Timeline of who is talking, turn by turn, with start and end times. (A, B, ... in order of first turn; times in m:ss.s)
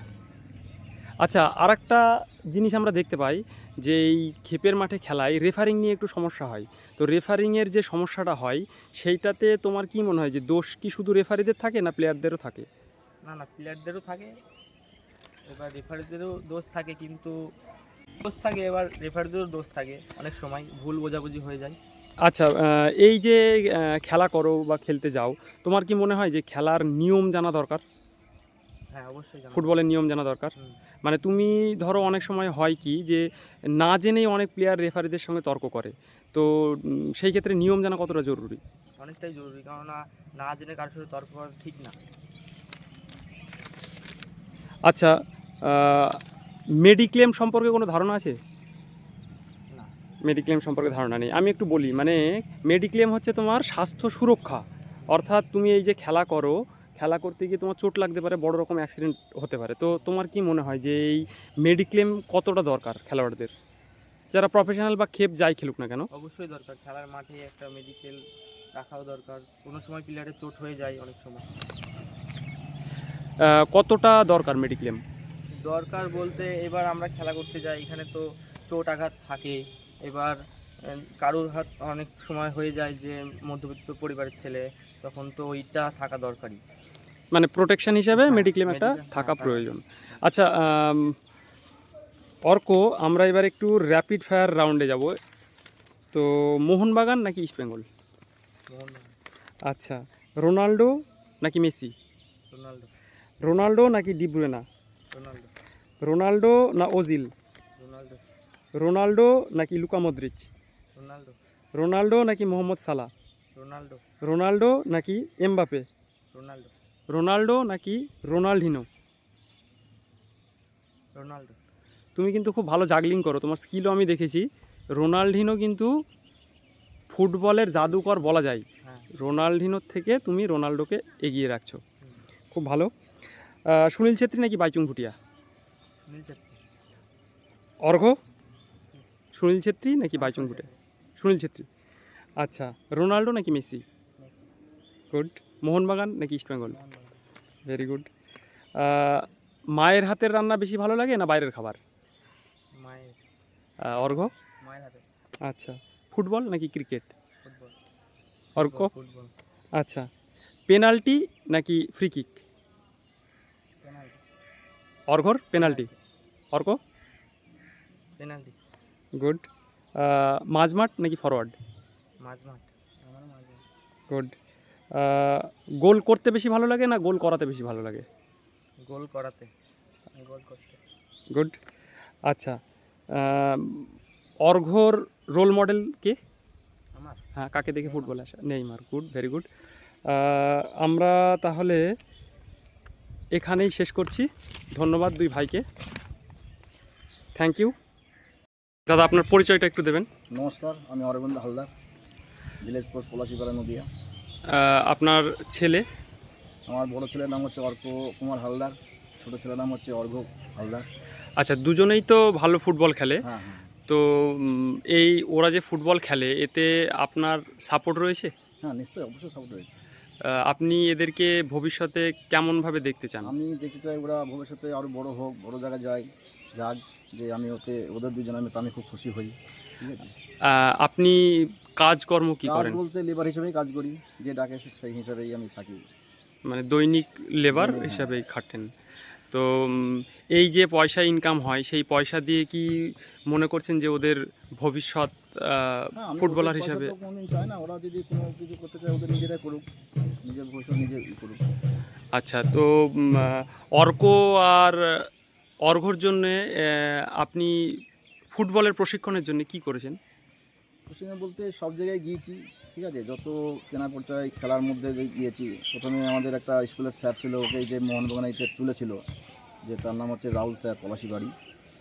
0:01.2-0:12.6 A
0:13.2-0:14.3 B
0:15.5-0:17.4 B
0:18.2-0:21.8 B
0:22.2-0:27.8 A
0:28.9-0:29.8 B
0:29.6-0:30.5 A
0:31.0-0:38.6 A
0:39.0-0:42.0 B
0:44.9-0:45.1 A
0:45.6-0:46.2 A
0:46.8-0:48.4 A
0:50.2-1:03.5 A
0:55.0-0:55.3 B
1:04.3-1:06.1 A
1:06.1-1:08.2 B
1:08.8-1:11.5 B
1:13.4-1:15.0 A
1:15.6-1:20.4 B
1:20.9-1:26.6 B
1:27.3-1:31.1 A
1:28.1-1:30.2 B
1:32.5-1:35.1 A
1:36.1-1:37.9 A
1:38.7-1:39.1 B
1:39.7-1:41.9 A
1:42.5-1:42.9 B
1:43.4-1:44.6 A
1:45.1-1:45.5 B
1:46.0-1:47.3 A
1:47.8-1:48.2 B
1:48.8-1:50.5 A
1:51.0-1:51.4 B
1:51.8-1:53.1 A
1:53.6-1:54.0 B
1:54.2-1:55.9 A
1:56.3-1:56.7 B
1:57.1-1:58.9 A
2:01.1-2:01.6 B
2:02.2-2:05.9 A
2:07.1-2:08.6 A
2:08.8-2:09.1 B
2:09.2-2:11.8 A
2:12.5-2:12.9 A
2:13.7-2:15.2 A
2:16.1-2:16.6 B
2:17.8-2:18.2 A
2:19.4-2:20.6 A
2:20.1-2:20.7 B
2:21.2-2:21.6 A
2:22.4-2:23.8 A
2:24.2-2:24.5 B
2:25.1-2:26.7 A
2:26.7-2:27.2 B
2:27.6-2:28.1 A
2:28.8-2:31.8 A
2:32.8-2:33.2 B
2:33.9-2:34.3 A
2:34.6-2:35.0 B
2:35.5-2:37.1 A
2:37.4-2:37.8 B
2:38.6-2:39.3 B
2:39.8-2:40.1 A
2:40.7-2:42.4 A
2:43.8-2:44.2 B
2:45.1-2:45.8 A
2:45.6-2:46.0 B
2:46.5-2:46.8 A
2:48.2-2:48.5 B
2:49.2-2:49.4 A
2:50.0-2:51.5 A
2:52.2-2:53.6 B
2:55.0-2:58.0 A
2:58.8-2:59.5 B
3:00.1-3:00.8 B
3:01.3-3:01.6 A
3:02.3-3:02.6 A
3:03.1-3:03.9 A
3:04.4-3:06.2 A
3:07.4-3:09.5 A
3:07.8-3:08.1 B
3:10.1-3:11.8 A
3:13.3-3:15.6 A
3:17.4-3:17.8 A
3:18.9-3:20.1 A
3:20.3-3:21.7 C
3:22.6-3:23.9 C
3:24.5-3:25.8 A
3:26.7-3:30.9 C
3:31.4-3:33.2 A
3:33.2-3:33.7 C
3:33.9-3:38.3 A
3:38.6-3:39.8 C
3:40.2-3:43.3 A
3:43.2-3:50.1 C
3:50.4-3:52.8 A
3:52.4-3:55.8 C
3:56.5-3:58.7 A
3:57.5-3:58.1 C
3:59.3-4:06.9 A
4:06.0-4:09.6 C
4:10.2-4:11.4 C
4:12.1-4:15.1 A
4:15.6-4:17.8 A
4:18.3-4:20.0 A
4:20.9-4:29.0 C
4:29.6-4:31.3 C